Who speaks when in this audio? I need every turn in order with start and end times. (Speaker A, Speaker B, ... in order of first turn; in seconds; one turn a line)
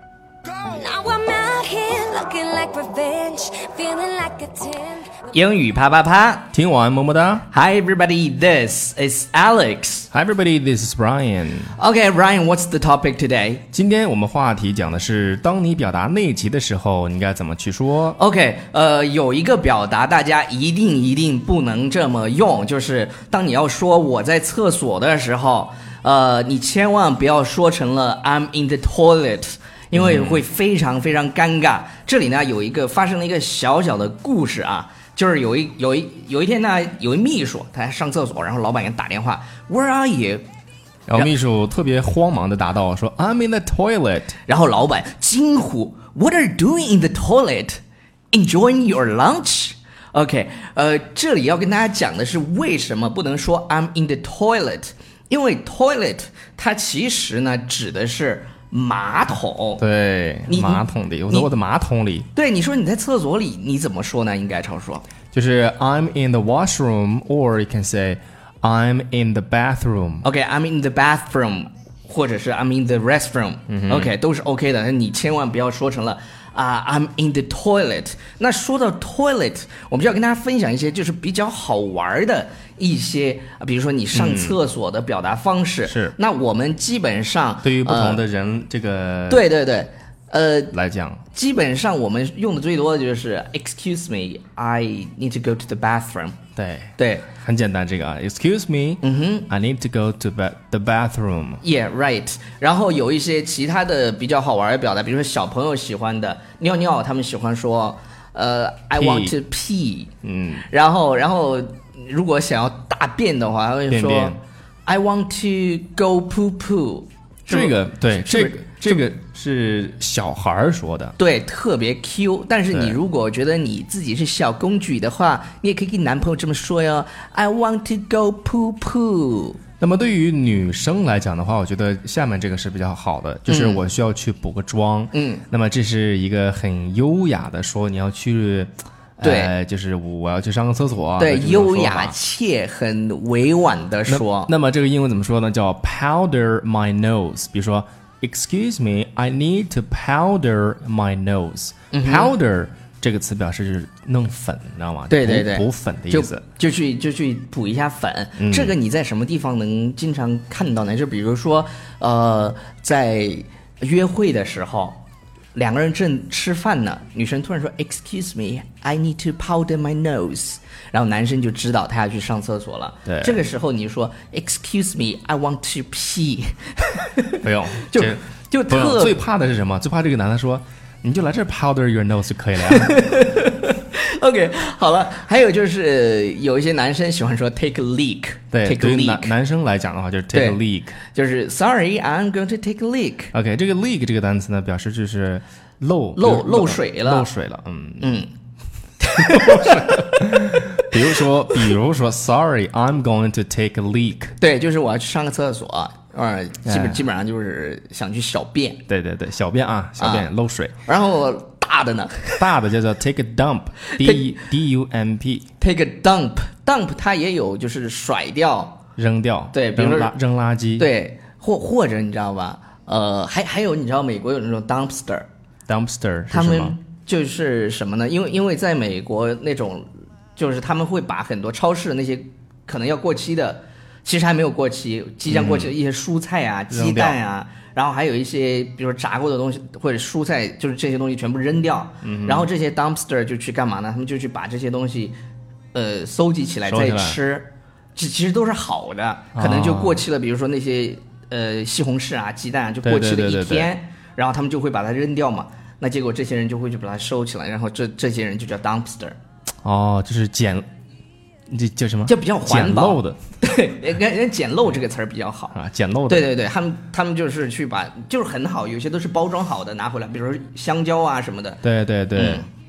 Speaker A: 0.5-5.2
Speaker B: 5.3-6.5
Speaker C: 6.5-7.5
Speaker B: 7.5-10.1
Speaker C: 10.1-11.7
Speaker B: 11.8-13.6
Speaker C: 13.7-18.2
Speaker B: 18.2-40.4
Speaker C: 29.9-30.4
Speaker C: 41.1-44.4
Speaker B: 44.5-47.8
Speaker B: 48.3-59.8
Speaker C: 59.8-62.3
Speaker B: 60.5-61.5
Speaker B: 62.3-65.0
Speaker C: 65.3-70.2
Speaker B: 70.2-88.2
Speaker C: 73.7-74.1
Speaker C: 84.1-84.6
Speaker C: 85.8-86.1
Speaker C: 87.6-89.5
Speaker B: 89.3-90.7
Speaker C: 90.7-91.2
Speaker B: 91.3-96.4
Speaker C: 96.5-101.6
Speaker B: 97.0-97.3
Speaker B: 99.0-99.5
Speaker B: 101.6-110.1
Speaker C: 109.0-109.3
Speaker C: 110.2-110.7
Speaker B: 110.7-119.0
Speaker C: 113.9-114.4
Speaker C: 117.5-121.2
Speaker B: 121.2-129.6
Speaker C: 122.7-123.0
Speaker C: 129.8-142.2
Speaker B: 133.5-133.8
Speaker B: 135.1-135.4
Speaker B: 139.2-139.5
Speaker B: 141.2-144.5
Speaker C: 144.1-156.4
Speaker B: 151.9-152.3
Speaker B: 155.1-165.0
Speaker C: 158.4-158.7
Speaker B: 165.5-179.2
Speaker C: 173.1-173.4
Speaker C: 177.4-183.1
Speaker B: 182.7-189.3
Speaker C: 188.5-191.0
Speaker B: 190.3-190.6
Speaker B: 191.1-193.3
Speaker C: 193.3-198.1
Speaker B: 196.2-197.3
Speaker B: 198.0-198.3
Speaker B: 199.0-200.9
Speaker C: 199.2-204.3
Speaker B: 204.4-208.8
Speaker C: 206.6-207.0
Speaker C: 208.9-210.7
Speaker B: 210.0-210.3
Speaker B: 210.8-212.5
Speaker C: 212.4-215.4
Speaker B: 215.6-218.8
Speaker C: 219.0-220.9
Speaker B: 219.5-220.1
Speaker B: 220.8-225.3
Speaker C: 225.7-226.8
Speaker B: 226.3-245.2
Speaker C: 235.3-235.7
Speaker C: 236.7-237.2
Speaker C: 242.0-242.5
Speaker B: 245.7-259.2
Speaker C: 246.7-247.2
Speaker C: 249.3-250.0
Speaker C: 252.8-253.7
Speaker C: 259.6-260.6
Speaker C: 261.5-263.2
Speaker B: 262.1-265.6
Speaker C: 265.5-266.3
Speaker B: 266.1-271.6
Speaker C: 271.6-272.4
Speaker B: 272.1-272.4